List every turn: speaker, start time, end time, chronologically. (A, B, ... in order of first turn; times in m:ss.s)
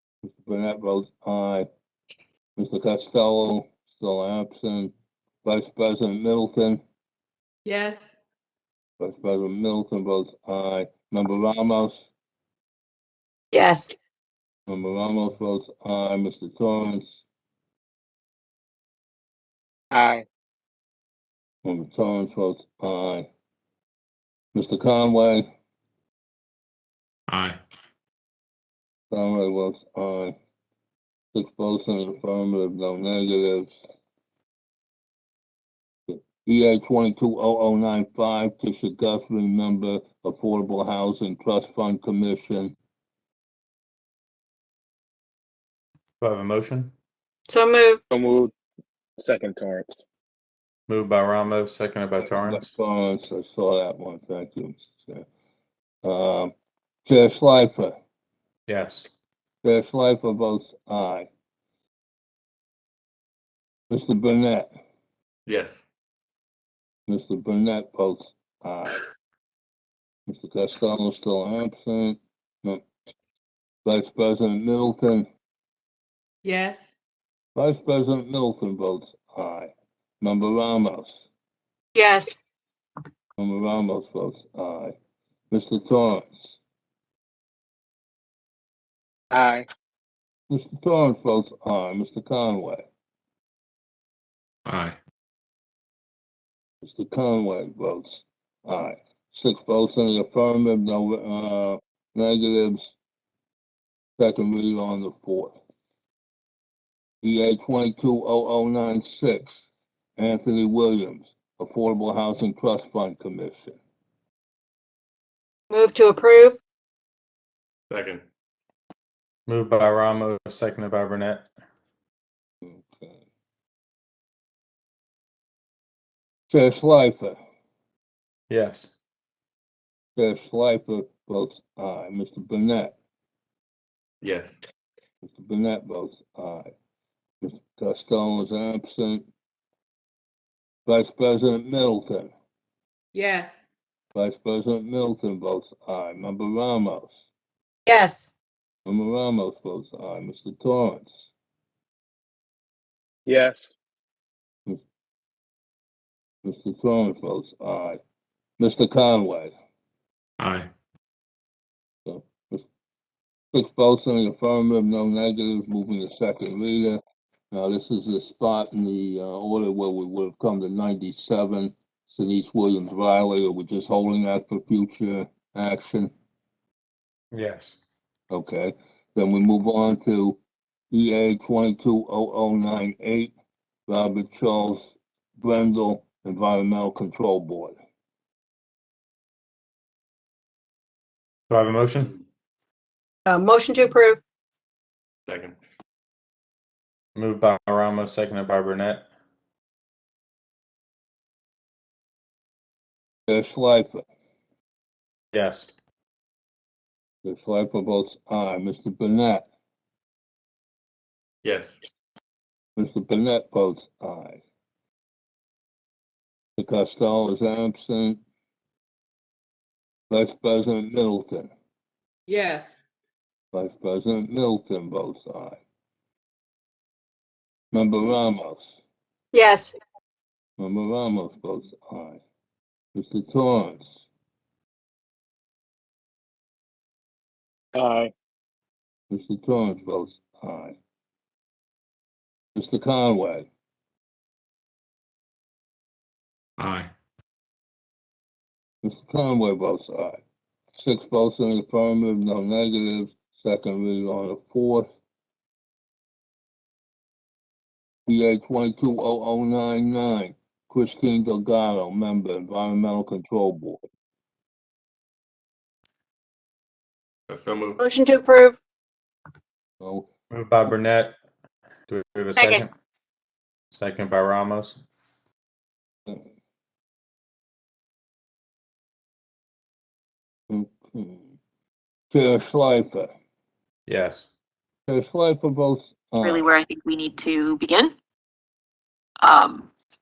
0:00.2-0:01.7 A
0:02.6-0:04.9 A
0:05.4-0:06.8 A
0:07.6-0:08.2 B
0:09.0-0:12.1 A
0:13.5-0:13.9 C
0:14.7-0:17.2 A
0:19.9-0:20.3 D
0:21.6-0:23.3 A
0:24.5-0:25.5 A
0:27.3-0:27.6 E
0:29.1-0:30.4 A
0:31.3-0:33.8 A
0:36.1-0:42.8 A
0:46.2-0:46.9 E
0:47.5-0:48.0 C
0:48.1-0:48.5 D
0:49.2-0:50.0 D
0:50.9-0:52.7 E
0:52.2-0:55.3 A
0:56.0-0:56.5 A
0:57.0-0:58.0 A
0:58.7-0:59.1 E
0:59.6-1:01.3 A
1:03.9-1:04.7 A
1:05.5-1:05.8 F
1:07.1-1:09.0 A
1:10.3-1:12.8 A
1:13.8-1:15.3 A
1:16.4-1:16.9 B
1:17.6-1:21.3 A
1:22.0-1:22.4 C
1:23.4-1:25.0 A
1:25.5-1:26.6 A
1:29.3-1:29.7 D
1:30.5-1:32.9 A
1:36.8-1:43.0 A
1:44.2-1:45.6 A
1:47.2-1:49.7 A
1:50.2-1:53.8 A
1:55.7-1:56.6 C
1:57.9-1:58.2 F
1:59.5-2:01.5 E
2:02.6-2:03.2 A
2:06.5-2:07.4 A
2:08.5-2:08.9 E
2:10.2-2:13.0 A
2:14.2-2:14.6 F
2:15.2-2:16.7 A
2:17.4-2:19.3 A
2:20.9-2:22.3 A
2:23.1-2:23.6 B
2:24.1-2:27.2 A
2:27.9-2:28.3 C
2:28.8-2:31.3 A
2:33.3-2:33.8 D
2:36.4-2:38.0 A
2:38.6-2:39.6 A
2:40.4-2:40.7 E
2:42.1-2:42.7 A
2:43.5-2:56.1 A
2:57.3-2:57.8 E
2:58.3-3:00.4 A
3:00.9-3:03.3 A
3:03.9-3:07.8 A
3:11.5-3:12.1 E
3:13.3-3:14.2 C
3:15.3-3:15.6 F
3:17.2-3:19.0 E
3:23.3-3:24.0 A
3:25.3-3:25.7 E
3:27.2-3:29.5 A
3:31.4-3:31.8 F
3:32.8-3:34.4 A
3:36.6-3:38.2 A
3:40.1-3:41.5 A
3:42.3-3:42.8 B
3:43.5-3:45.6 A
3:47.7-3:48.8 A
3:49.3-3:49.8 C
3:50.6-3:52.2 A
3:53.0-3:54.0 A
3:57.7-3:58.1 D
3:59.1-4:00.8 A
4:02.6-4:03.5 A
4:06.6-4:06.9 E
4:08.8-4:10.2 A
4:10.8-4:14.9 A
4:18.1-4:23.8 A
4:27.3-4:27.8 F
4:27.8-4:28.6 C
4:29.8-4:30.1 A
4:30.3-4:31.2 E
4:31.9-4:32.7 E
4:32.4-4:32.6 C
4:33.7-4:34.8 E
4:40.5-4:41.4 A
4:42.1-4:43.1 A
4:43.9-4:44.3 E
4:44.9-4:46.5 A
4:46.2-4:47.9 G
4:49.2-4:49.7 G